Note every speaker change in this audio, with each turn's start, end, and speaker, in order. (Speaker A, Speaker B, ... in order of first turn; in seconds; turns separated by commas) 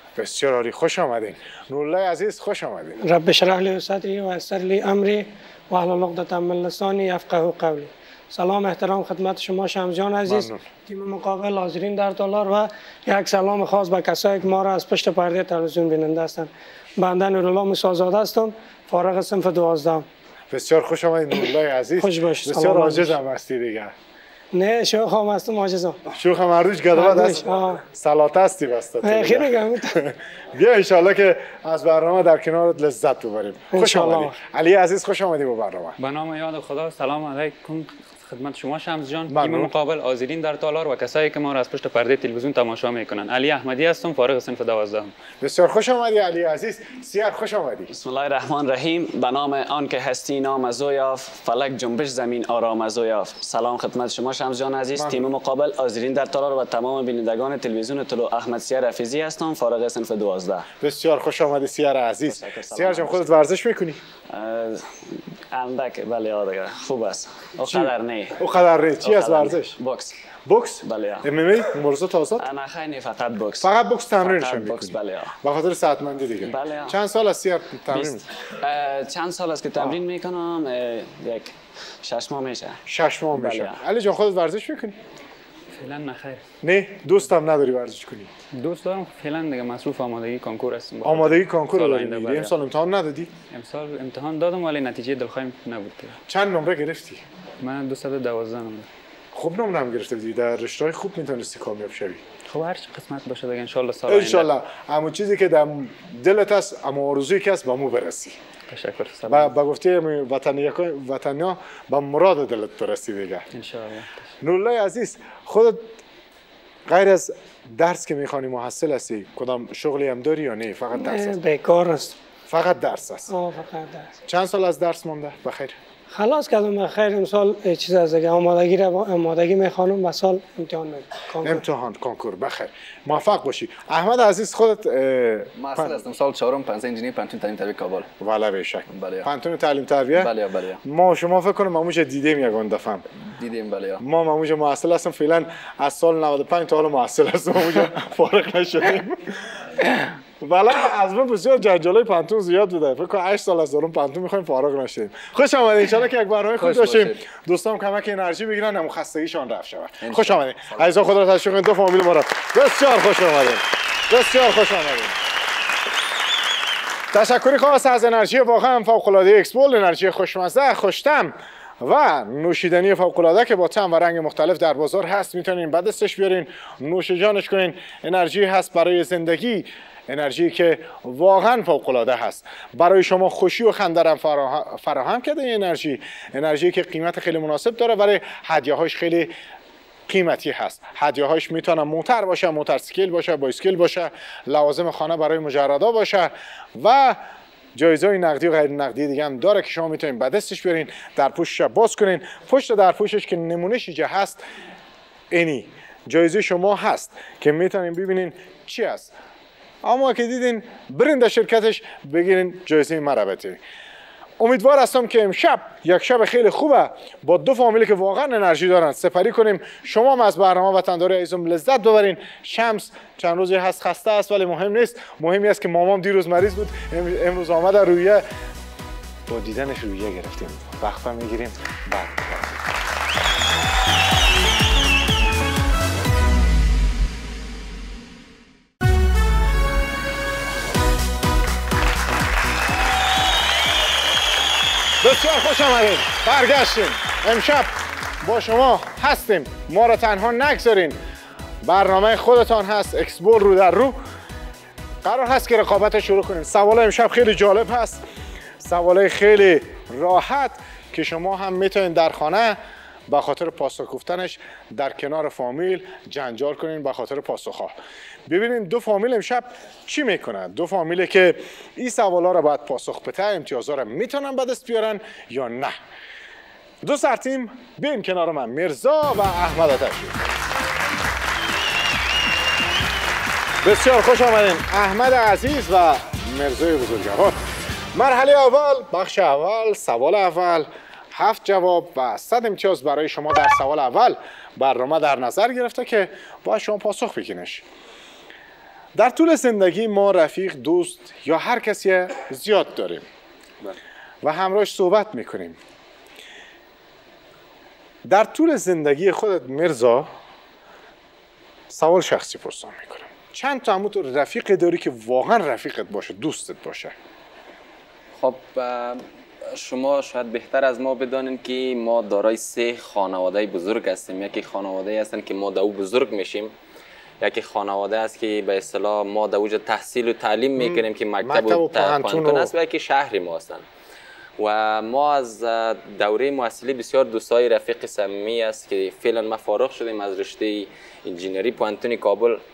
Speaker A: 0.1-3.0, Speaker B: 3.0-20.1, Speaker A: 10.2-10.6, Speaker A: 20.5-23.9, Speaker B: 22.0-23.1, Speaker B: 24.5-26.0, Speaker A: 26.1-36.0, Speaker B: 26.9-27.8, Speaker B: 29.0-30.0, Speaker B: 33.7-34.4, Speaker C: 36.0-45.1, Speaker A: 39.3-39.7, Speaker A: 45.4-47.9, Speaker D: 47.9-60.7, Speaker A: 54.9-55.3, Speaker A: 60.8-64.0, Speaker D: 62.3-63.2, Speaker D: 64.3-68.4, Speaker A: 67.6-69.8, Speaker D: 69.0-70.1, Speaker A: 70.5-72.5, Speaker D: 70.8-71.3, Speaker D: 72.4-73.7, Speaker A: 73.6-78.2, Speaker D: 74.2-75.3, Speaker D: 76.5-77.0, Speaker D: 77.9-82.8, Speaker A: 82.8-85.0, Speaker D: 83.3-83.8, Speaker C: 85.7-86.4, Speaker A: 86.6-88.3, Speaker C: 88.5-92.5, Speaker A: 91.0-93.3, Speaker C: 93.5-96.2, Speaker A: 96.3-97.2, Speaker C: 97.6-98.9, Speaker A: 99.3-102.2, Speaker C: 102.5-104.5, Speaker A: 104.1-108.4, Speaker C: 108.7-109.5, Speaker A: 109.3-113.5, Speaker C: 113.5-114.2, Speaker A: 114.4-115.8, Speaker A: 116.9-121.4, Speaker B: 120.9-122.2, Speaker A: 122.5-123.3, Speaker B: 123.3-124.1, Speaker A: 124.2-125.8, Speaker B: 126.1-131.6, Speaker A: 131.4-136.0, Speaker E: 135.6-138.1, Speaker A: 138.2-140.3, Speaker E: 138.9-139.3, Speaker E: 140.1-140.8, Speaker A: 140.8-143.1, Speaker E: 143.2-144.0, Speaker A: 144.0-165.2, Speaker E: 156.6-157.2, Speaker E: 160.0-160.9, Speaker A: 167.1-189.3, Speaker A: 190.1-197.2, Speaker A: 197.7-204.4, Speaker A: 205.3-209.1, Speaker A: 209.8-213.6, Speaker A: 214.4-228.2, Speaker A: 229.3-232.6, Speaker A: 245.0-251.0, Speaker A: 251.6-254.0, Speaker A: 255.0-258.0, Speaker A: 258.6-267.8, Speaker A: 268.3-275.8, Speaker A: 276.8-280.2, Speaker A: 283.6-287.4, Speaker A: 287.9-297.6, Speaker A: 298.9-303.1, Speaker A: 304.2-305.6, Speaker A: 308.0-310.1, Speaker A: 311.7-316.9, Speaker F: 318.2-326.5, Speaker F: 327.2-333.6, Speaker A: 330.6-332.5, Speaker F: 334.4-342.4